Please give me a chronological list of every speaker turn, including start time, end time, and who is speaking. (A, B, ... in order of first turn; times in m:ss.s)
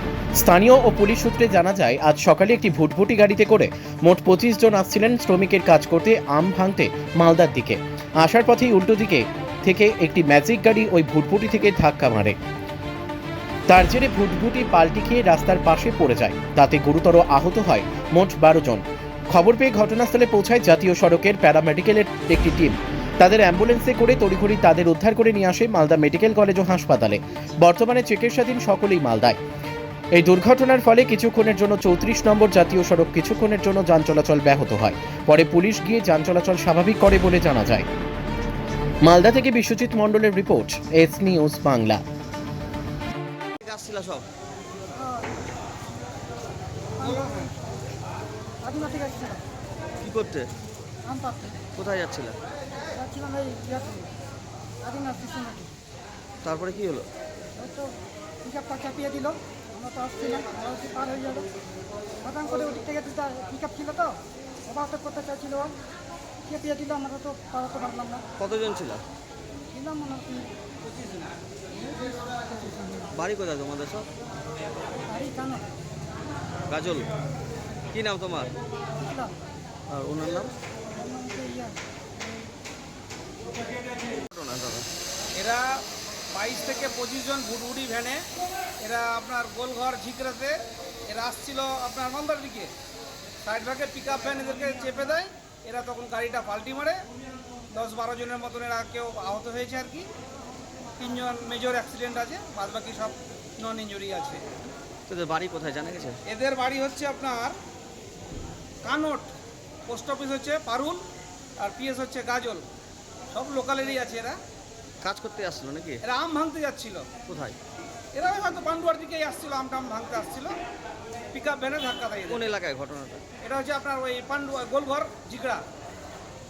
0:00.3-0:12.4 A
0:13.7-0:29.4 A
0:30.1-0:37.9 A
0:39.0-0:42.0 A
0:43.6-0:44.2 B
0:45.0-0:45.3 C
0:47.0-0:47.5 C
0:48.6-0:49.4 C
0:50.0-0:50.5 B
0:51.0-0:51.6 C
0:51.7-0:52.4 B
0:52.9-0:54.1 C
0:54.8-0:55.7 C
0:56.4-0:57.1 B
0:57.6-1:01.5 C
1:02.2-1:05.7 C
1:06.4-1:08.2 C
1:08.4-1:09.0 B
1:09.7-1:10.5 C
1:11.7-1:13.1 C
1:13.1-1:14.1 B
1:15.1-1:15.6 C
1:16.7-1:17.1 B
1:17.9-1:18.5 B
1:19.0-1:19.4 C
1:19.9-1:20.5 B
1:20.9-1:21.8 C
1:24.3-1:24.9 B
1:25.3-1:28.3 D
1:28.8-1:32.7 D
1:33.4-1:37.0 D
1:37.7-1:40.1 D
1:41.0-1:44.5 D
1:45.1-1:46.2 B
1:46.2-1:47.6 D
1:48.8-1:49.3 D
1:49.9-1:51.0 D
1:51.6-1:52.6 D
1:53.3-1:54.4 D
1:55.0-1:56.0 B
1:56.0-1:57.1 D
1:57.3-1:57.6 B
1:58.1-2:00.6 D
2:01.3-2:02.5 D
2:02.3-2:03.2 B
2:03.4-2:05.6 D